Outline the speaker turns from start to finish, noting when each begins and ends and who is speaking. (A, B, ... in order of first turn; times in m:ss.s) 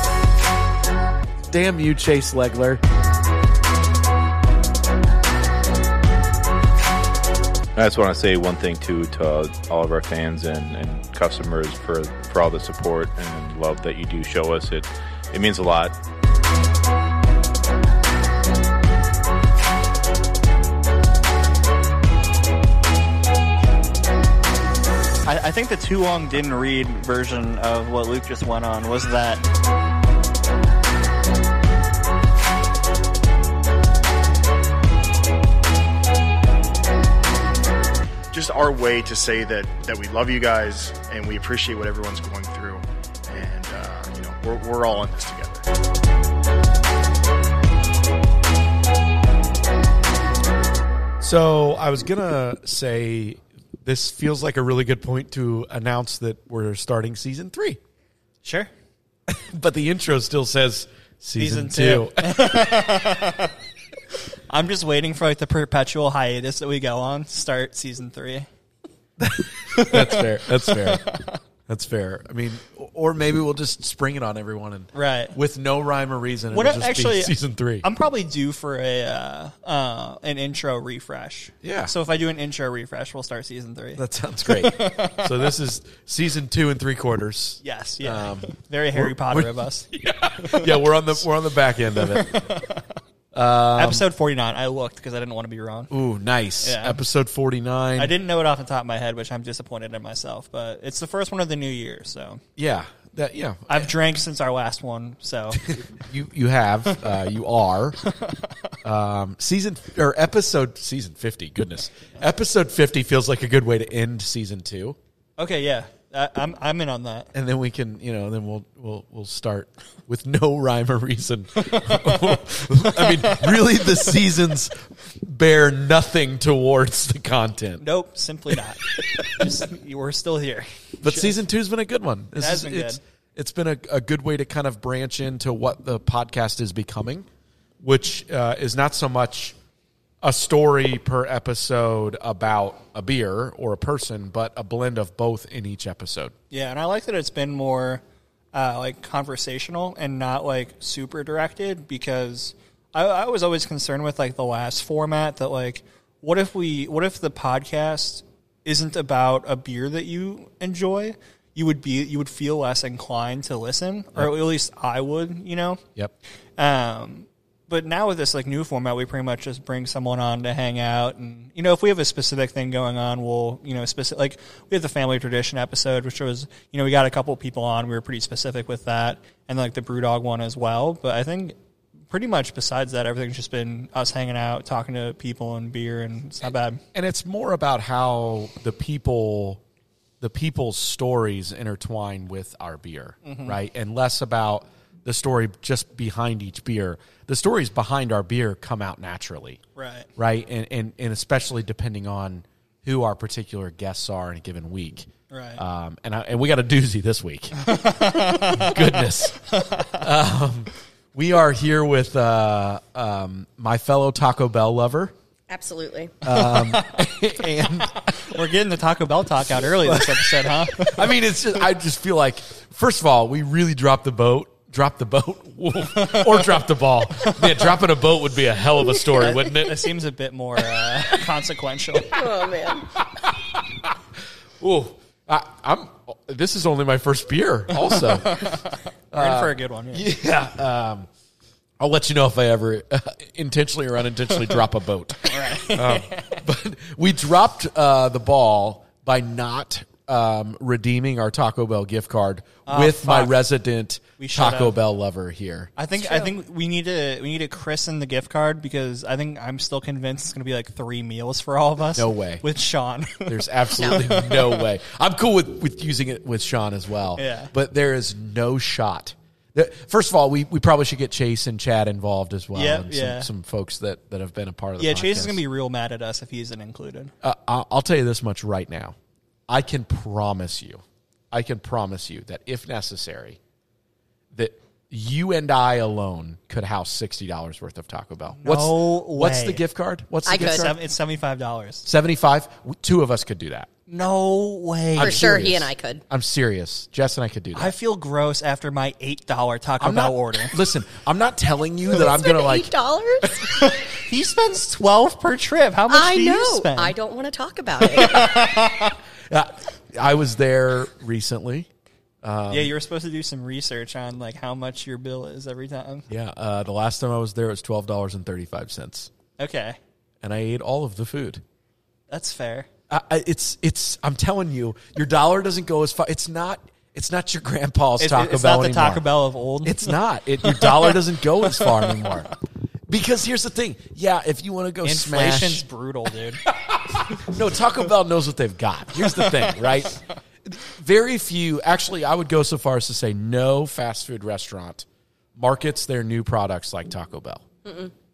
0:01.5-0:02.8 A
0:07.8-0:16.0 B
0:25.2-0:29.4 C
0:38.3-0:45.7 D
0:51.2-0:57.8 A
0:58.4-0:58.7 C
0:59.3-1:02.8 A
1:01.4-1:03.5 C
1:04.5-1:08.5 C
1:09.2-1:11.1 A
1:09.7-1:11.4 C
1:11.7-1:17.8 A
1:14.9-1:15.3 C
1:16.5-1:25.4 C
1:21.6-1:21.9 A
1:24.0-1:32.7 A
1:27.6-1:29.9 C
1:30.4-1:30.9 C
1:31.9-1:32.8 C
1:33.3-1:34.0 A
1:33.8-1:35.9 C
1:35.9-1:38.1 A
1:36.6-1:37.0 C
1:38.0-1:42.4 C
1:42.6-1:43.9 A
1:43.7-1:45.6 C
1:45.5-1:48.0 A
1:48.8-1:55.0 A
1:55.4-1:57.3 C
1:57.3-2:07.8 A
2:01.6-2:02.4 C
2:02.9-2:03.8 C
2:07.8-2:11.4 C
2:08.9-2:09.5 A
2:11.0-2:17.3 A
2:12.4-2:13.0 C
2:17.8-2:19.5 A
2:20.2-2:26.3 A
2:26.5-2:28.0 C
2:28.5-2:45.8 C
2:46.6-3:01.5 C
3:02.1-3:06.8 C
3:06.4-3:09.6 A
3:10.2-3:19.6 A
3:13.2-3:13.6 C
3:19.8-3:20.1 C
3:20.2-3:27.6 A
3:25.3-3:25.6 C
3:27.6-3:28.9 C
3:28.4-3:35.1 A
3:29.5-3:30.0 C
3:35.5-3:36.1 E
3:36.2-3:38.4 A
3:36.3-3:37.1 C
3:38.2-3:41.1 C
3:39.8-3:49.9 A
3:45.9-3:46.6 C
3:47.2-3:47.7 C
3:49.1-3:52.3 C
3:52.0-3:52.9 E
3:52.8-4:01.1 A
3:57.9-4:00.1 C
4:01.8-4:15.7 A
4:05.2-4:06.4 C
4:12.6-4:13.4 C
4:14.2-4:14.8 C
4:15.8-4:24.6 C
4:21.9-4:22.4 A
4:23.2-4:35.4 A
4:27.2-4:27.5 C
4:32.5-4:33.3 C
4:34.8-4:37.1 C
4:37.2-4:38.9 A
4:39.5-4:43.4 A
4:44.3-4:50.8 A
4:48.4-4:49.6 C
4:50.2-4:50.7 E
4:50.3-4:51.8 C
4:51.8-4:53.7 A
4:53.9-4:55.2 C
4:54.9-4:57.8 A
4:55.0-4:56.0 E
4:57.5-5:00.5 C
4:59.8-5:03.6 A
5:02.2-5:03.5 E
5:03.5-5:06.9 C
5:05.9-5:08.2 E
5:07.9-5:09.0 C
5:09.3-5:11.7 A
5:12.2-5:12.7 A
5:12.5-5:16.1 C
5:16.1-5:19.1 A
5:19.4-5:19.8 C
5:20.2-5:21.4 A
5:22.1-5:22.7 C
5:22.9-5:29.0 A
5:28.0-5:30.9 C
5:29.6-5:32.3 A
5:32.9-5:35.6 A
5:34.8-5:36.4 C
5:36.4-5:44.8 A
5:39.2-5:39.5 C
5:45.4-5:47.4 A
5:47.6-5:47.9 E